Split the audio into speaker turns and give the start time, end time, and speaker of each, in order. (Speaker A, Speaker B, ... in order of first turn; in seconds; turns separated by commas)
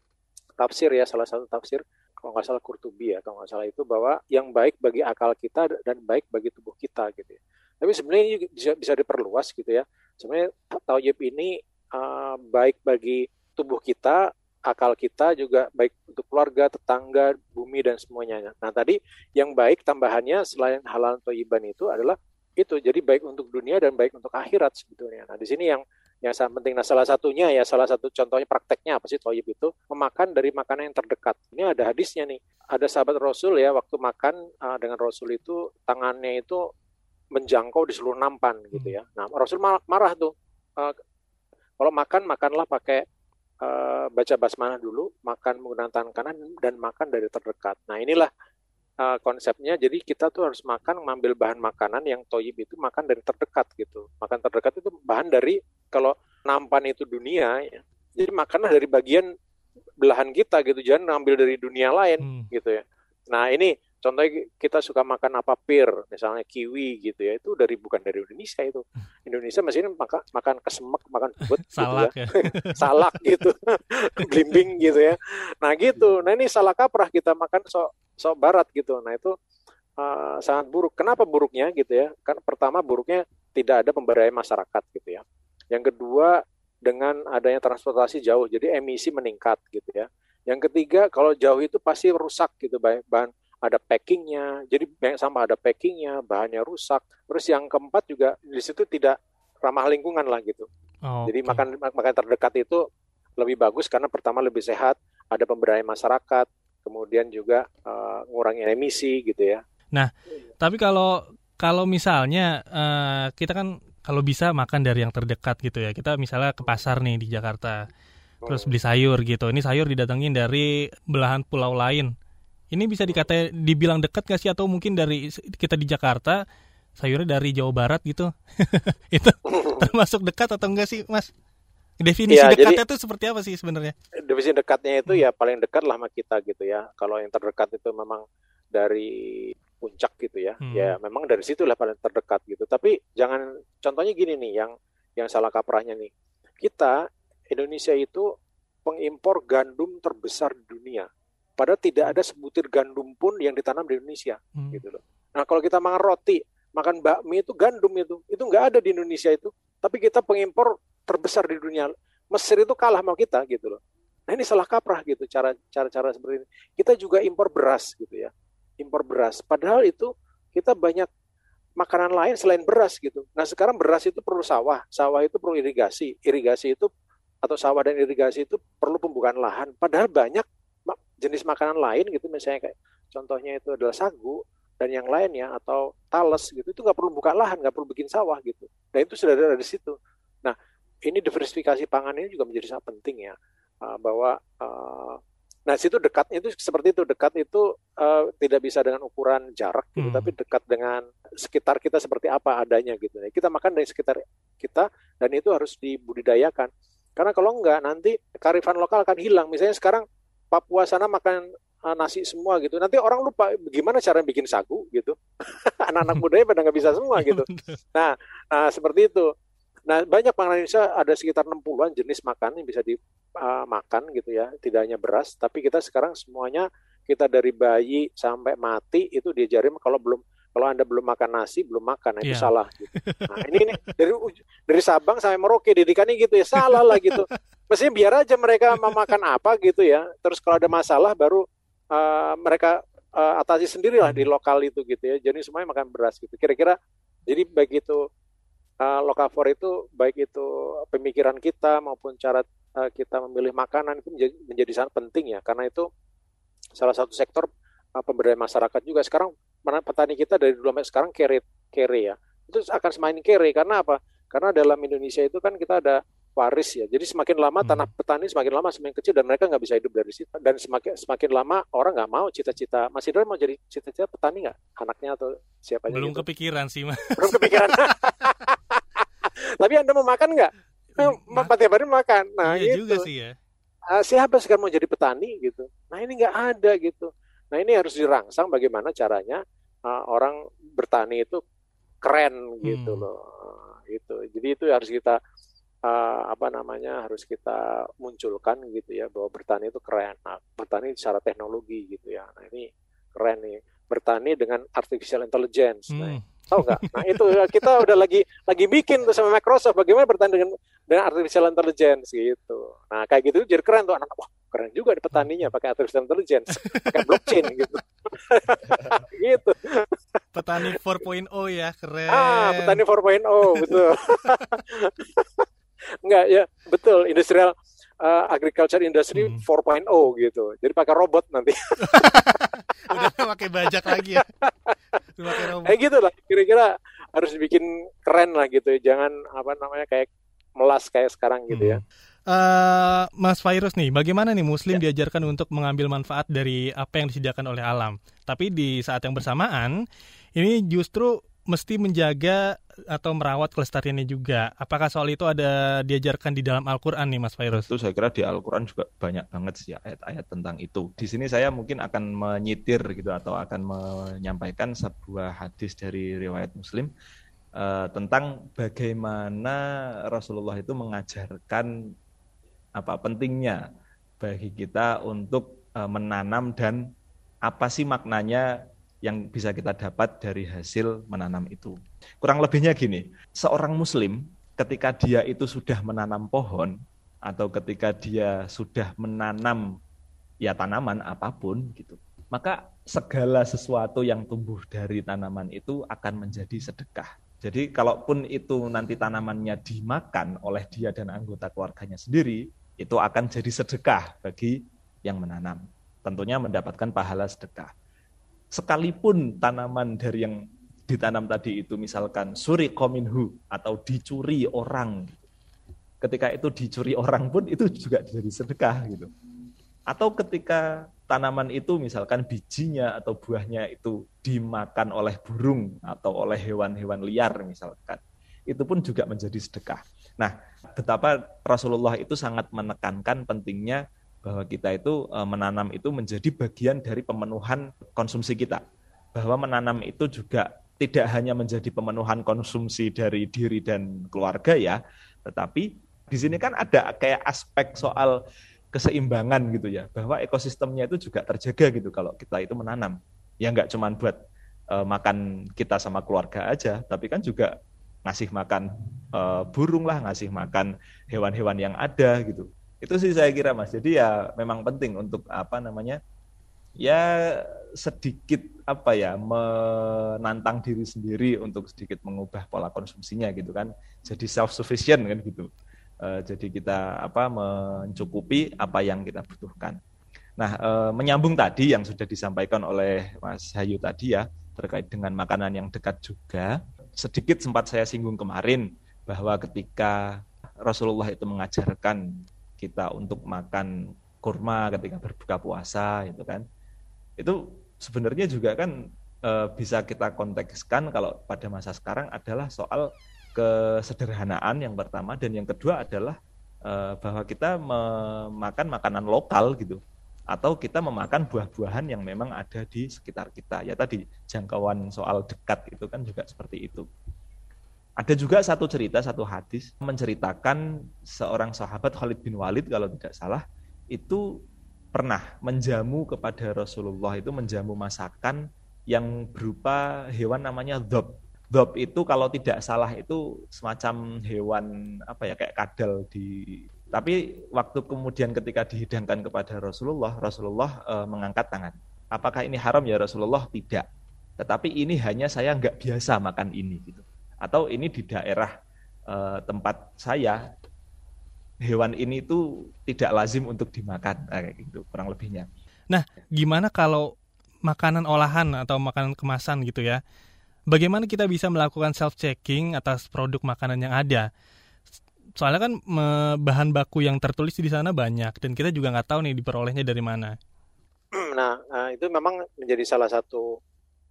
Speaker A: 0.6-36.7, Speaker A: 37.4-41.0, Speaker A: 41.8-43.0, Speaker A: 43.6-48.3, Speaker A: 49.0-59.3, Speaker A: 60.0-79.3, Speaker B: 62.2-62.5, Speaker B: 71.7-73.0, Speaker A: 80.0-100.7, Speaker B: 101.0-101.7, Speaker A: 101.3-102.8, Speaker A: 103.4-109.6, Speaker B: 109.9-117.8, Speaker A: 118.5-118.7, Speaker B: 118.5-122.1, Speaker B: 122.7-126.4, Speaker B: 127.0-131.3, Speaker B: 132.0-133.9, Speaker A: 132.3-132.8, Speaker A: 134.2-147.0, Speaker B: 140.6-140.9, Speaker A: 147.5-148.3, Speaker A: 148.8-171.1, Speaker B: 154.6-154.8, Speaker A: 171.8-176.9, Speaker A: 177.4-190.6, Speaker A: 191.1-219.3, Speaker B: 200.0-200.3, Speaker B: 217.1-217.8, Speaker A: 219.9-246.8, Speaker B: 232.2-233.6, Speaker B: 236.6-237.3, Speaker A: 247.3-248.0, Speaker A: 248.8-255.9, Speaker A: 256.8-276.2, Speaker B: 267.6-267.9, Speaker B: 275.9-277.9, Speaker A: 277.2-283.1, Speaker B: 280.9-281.5, Speaker B: 282.4-283.4, Speaker A: 283.9-291.4, Speaker A: 292.0-295.2, Speaker B: 292.6-293.1, Speaker A: 295.9-319.9, Speaker B: 305.9-307.7, Speaker B: 316.6-317.5, Speaker B: 320.3-322.8, Speaker A: 322.1-325.5, Speaker B: 323.5-323.8, Speaker A: 326.0-332.4, Speaker B: 329.1-329.4, Speaker B: 331.9-334.2, Speaker A: 333.8-334.8, Speaker B: 335.1-335.8, Speaker A: 335.3-341.8, Speaker B: 341.5-349.8, Speaker B: 350.4-357.7, Speaker C: 357.5-366.9, Speaker C: 367.6-371.7, Speaker C: 372.8-373.6, Speaker C: 374.2-376.9, Speaker C: 377.5-378.5, Speaker C: 379.0-386.8, Speaker C: 387.2-389.6, Speaker C: 390.4-407.7, Speaker C: 408.5-415.2, Speaker C: 416.0-419.1, Speaker C: 419.9-438.6, Speaker C: 439.1-448.2, Speaker C: 448.7-454.2, Speaker C: 454.7-457.5, Speaker C: 458.1-466.0, Speaker C: 466.8-475.5, Speaker C: 476.0-479.8, Speaker C: 480.4-492.0, Speaker C: 492.6-493.7, Speaker C: 494.2-496.4, Speaker C: 497.2-498.8, Speaker C: 499.2-509.8, Speaker C: 510.3-516.9, Speaker C: 518.0-524.2, Speaker C: 525.0-543.9, Speaker C: 544.4-548.5, Speaker C: 549.1-550.4, Speaker C: 551.6-555.5, Speaker B: 555.9-557.1, Speaker B: 557.7-560.0, Speaker B: 560.7-564.3, Speaker B: 565.4-570.3, Speaker A: 571.2-573.6